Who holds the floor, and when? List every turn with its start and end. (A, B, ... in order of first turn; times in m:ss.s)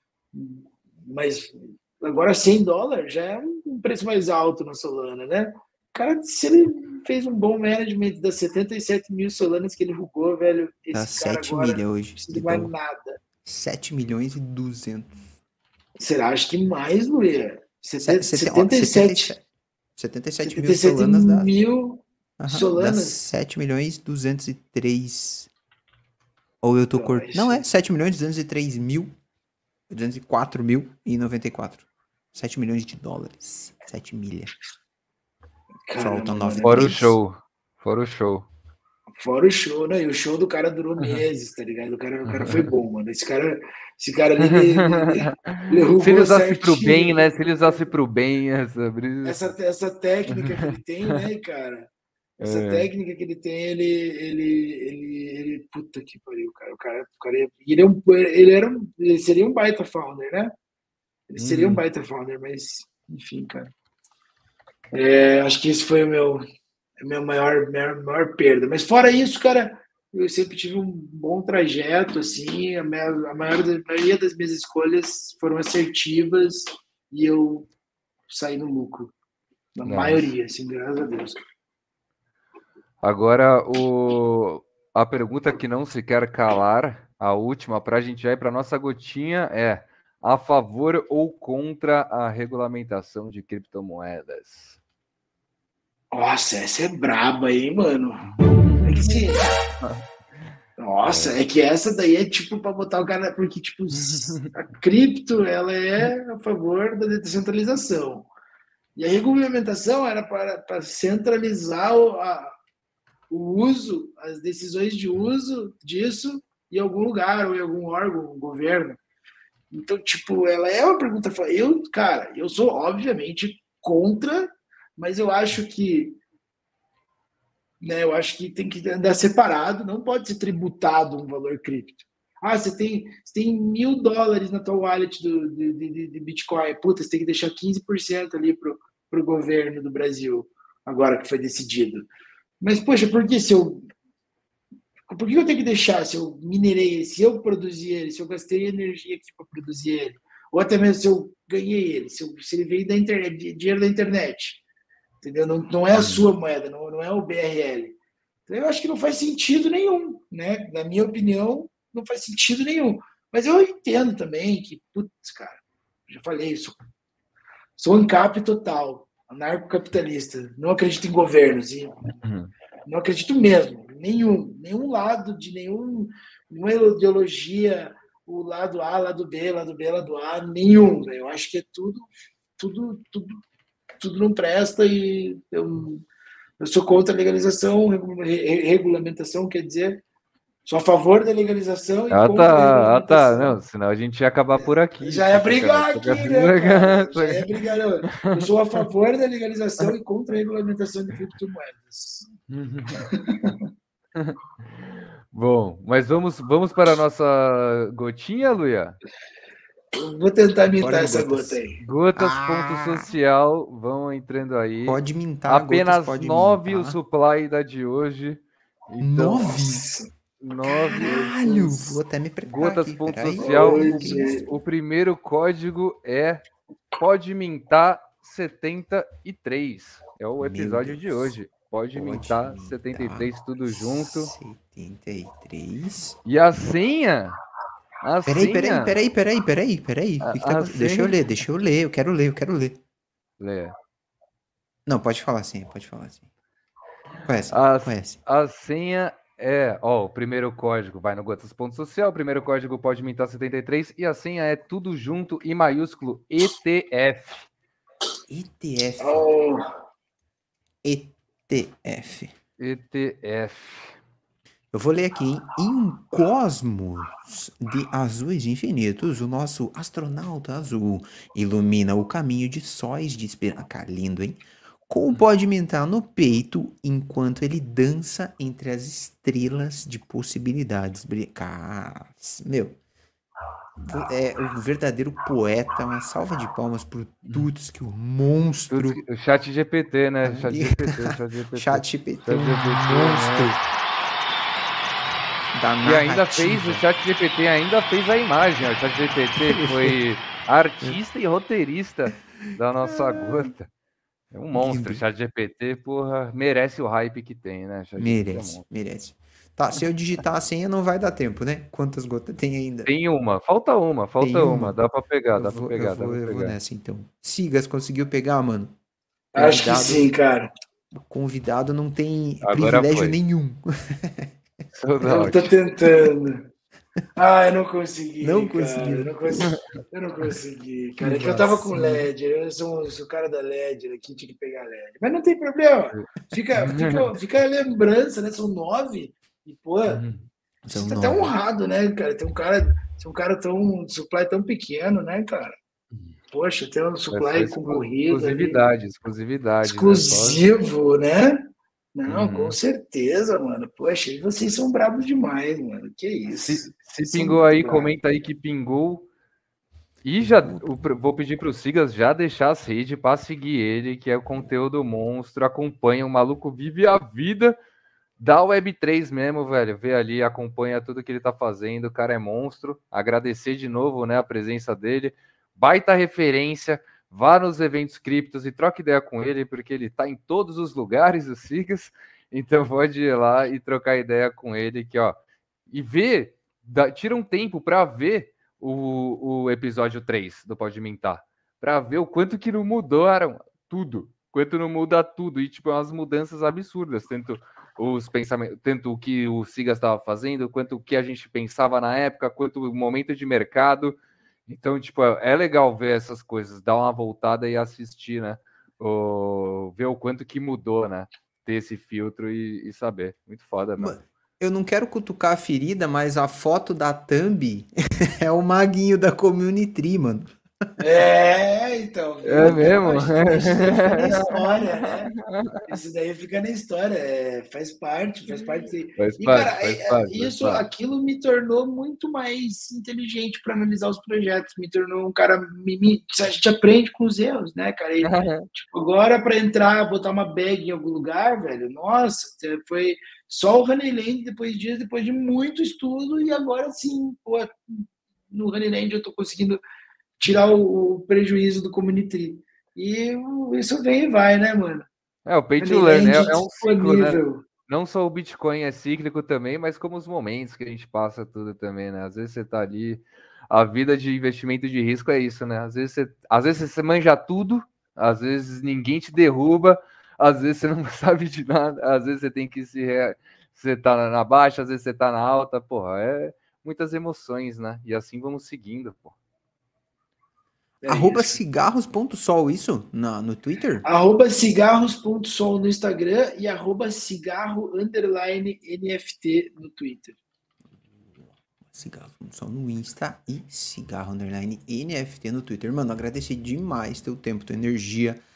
0:00.3-0:13.2 A
0:10.9-0:12.7 B
0:13.4-0:15.3 B
0:16.0-0:19.4 A
0:18.0-0:19.4 B
0:20.0-0:21.5 B
0:20.4-0:23.2 A
0:22.4-0:25.5 B
0:26.6-0:29.1 B
0:27.0-0:27.6 A
0:29.9-0:34.5 B
0:35.9-0:37.0 A
0:36.0-0:37.2 B
0:36.6-0:38.5 C
0:39.2-0:47.9 A
0:42.3-0:42.7 C
0:44.4-0:49.5 C
0:49.2-0:51.9 A
0:50.3-0:51.2 C
0:52.4-0:52.9 C
0:52.4-1:00.5 A
1:01.3-1:03.7 A
1:01.4-1:01.8 C
1:04.9-1:06.4 A
1:07.0-1:17.7 A
1:18.3-1:19.1 A
1:19.8-1:21.4 A
1:19.8-1:20.3 C
1:23.0-1:34.8 C
1:36.1-1:39.5 A
1:38.2-1:40.0 C
1:40.8-1:48.3 A
1:41.1-1:41.4 C
1:44.1-1:44.5 C
1:49.0-1:52.5 A
1:53.3-1:59.0 A
1:59.7-2:06.2 A
2:07.8-2:22.1 A
2:22.6-2:23.8 A
2:25.1-2:34.6 A
2:35.2-2:38.0 A
2:35.9-2:36.2 C
2:38.5-2:46.8 A
2:47.8-2:51.9 A
2:52.2-2:52.5 C
2:52.9-3:03.4 A
3:04.0-3:06.0 A
3:06.6-3:10.0 A
3:10.6-3:13.6 A
3:12.1-3:18.8 C
3:15.0-3:22.3 A
3:22.5-3:23.1 C
3:23.0-3:23.6 A
3:24.2-3:29.0 C
3:29.9-3:31.8 A
3:30.8-3:31.6 B
3:31.8-3:39.8 C
3:32.2-3:33.1 B
3:34.8-3:37.0 B
3:39.0-3:39.9 B
3:40.4-3:41.3 C
3:40.7-3:44.4 B
3:40.9-3:41.9 A
3:42.5-3:46.4 C
3:43.4-3:44.4 A
3:47.0-3:54.3 C
3:50.4-3:51.3 B
3:51.9-3:56.2 B
3:56.3-3:57.4 C
3:58.0-3:59.0 C
3:58.3-4:02.8 B
4:00.2-4:01.2 C
4:03.4-4:03.8 C
4:04.9-4:06.2 B
4:07.3-4:08.2 B
4:07.5-4:17.5 C
4:18.3-4:19.3 B
4:19.0-4:19.6 A
4:20.8-4:22.3 B
4:22.6-4:24.0 C
4:24.7-4:42.8 B
4:43.8-4:49.0 B
4:48.7-4:53.6 C
4:50.2-4:53.6 B
4:55.5-4:56.8 B
4:55.8-5:03.7 C
4:59.4-5:00.0 B
5:02.9-5:03.5 B
5:04.3-5:08.6 C
5:04.5-5:05.0 B
5:08.0-5:12.9 B
5:12.9-5:16.6 C
5:14.2-5:14.8 B
5:15.4-5:18.8 B
5:19.3-5:20.1 B
5:19.3-5:20.5 A
5:20.9-5:24.3 B
5:22.4-5:23.2 C
5:24.8-5:25.6 C
5:25.0-5:26.5 A
5:27.2-5:40.0 A
5:28.2-5:29.4 B
5:31.0-5:32.0 B
5:35.9-5:37.1 C
5:39.9-5:40.3 C
5:40.6-5:41.3 B
5:40.7-5:45.6 A
5:46.3-5:48.6 A
5:47.1-5:50.4 C
5:49.6-5:57.9 A
5:52.1-5:52.6 C
5:56.3-5:59.1 C
6:00.0-6:07.6 C
6:00.2-6:00.7 B
6:08.2-6:25.2 C
6:25.7-6:54.0 C
6:53.8-7:00.3 B
7:00.8-7:05.1 A
7:02.3-7:05.7 C
7:05.7-7:29.6 A
7:08.3-7:10.7 C
7:18.0-7:18.5 C
7:30.2-7:34.9 A
7:35.3-7:59.2 C
7:35.6-7:37.4 A
8:00.8-8:01.4 A
8:00.9-8:03.8 B
8:03.8-8:10.2 A
8:11.2-8:18.2 B